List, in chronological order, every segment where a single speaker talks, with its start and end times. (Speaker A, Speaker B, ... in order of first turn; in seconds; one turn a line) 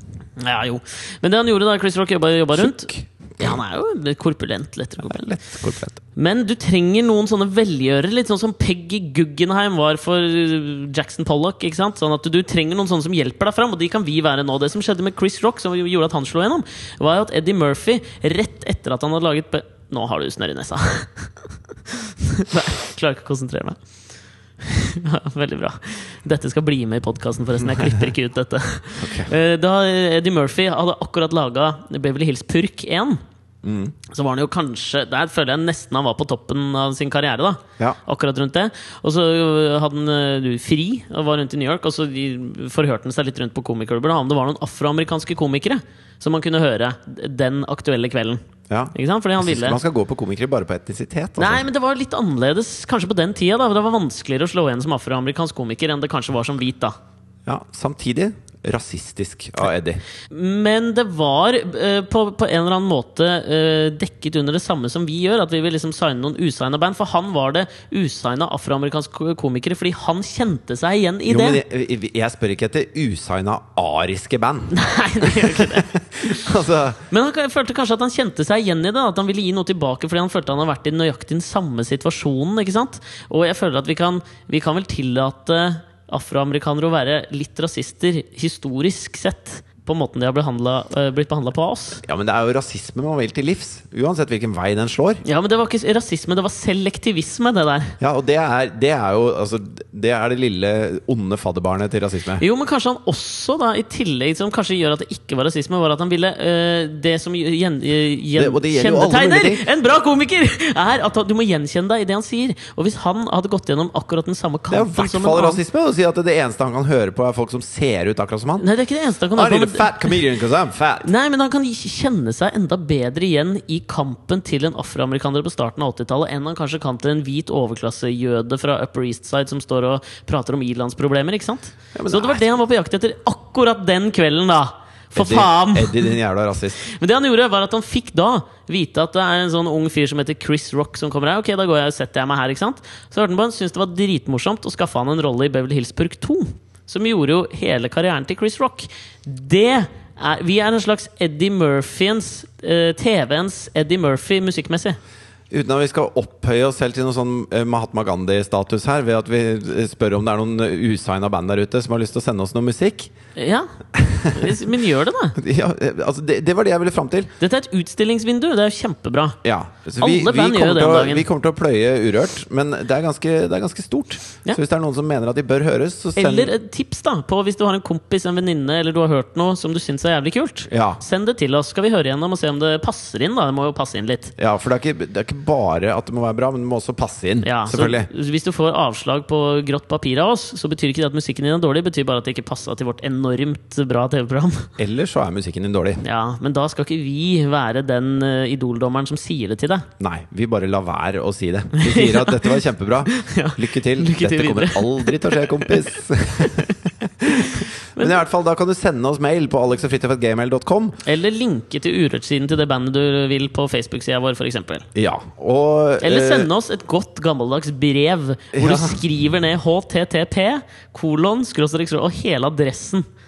Speaker A: 0.4-5.4
Speaker B: 2.5-3.6
Speaker B: 5.0-6.0
Speaker A: 6.1-21.3
Speaker A: 21.9-23.8
Speaker A: 24.6-33.2
Speaker B: 29.0-29.3
Speaker B: 33.6-33.9
Speaker A: 34.1-48.4
Speaker B: 48.7-51.7
Speaker A: 48.9-49.8
Speaker A: 51.4-57.0
Speaker B: 57.5-60.0
Speaker A: 60.3-71.6
Speaker B: 71.3-77.0
Speaker A: 74.7-76.4
Speaker A: 77.1-92.0
Speaker B: 92.0-95.2
Speaker A: 95.2-98.0
Speaker B: 98.0-102.4
Speaker A: 102.4-115.6
Speaker B: 108.3-109.7
Speaker B: 114.7-118.7
Speaker A: 118.6-120.2
Speaker B: 119.3-121.1
Speaker A: 121.0-136.2
Speaker B: 131.9-132.5
Speaker B: 135.1-136.8
Speaker A: 136.8-155.0
Speaker B: 155.5-163.1
Speaker A: 163.3-163.7
Speaker B: 163.9-164.7
Speaker A: 164.3-165.4
Speaker B: 165.3-167.3
Speaker A: 167.4-169.4
Speaker B: 169.4-176.5
Speaker A: 170.0-171.3
Speaker A: 176.2-184.3
Speaker B: 180.7-181.0
Speaker B: 184.4-188.1
Speaker A: 187.4-194.7
Speaker B: 194.8-196.0
Speaker A: 196.0-199.9
Speaker B: 200.0-211.0
Speaker A: 201.7-208.2
Speaker A: 211.0-214.9
Speaker B: 214.9-216.5
Speaker A: 216.0-223.1
Speaker B: 218.5-219.0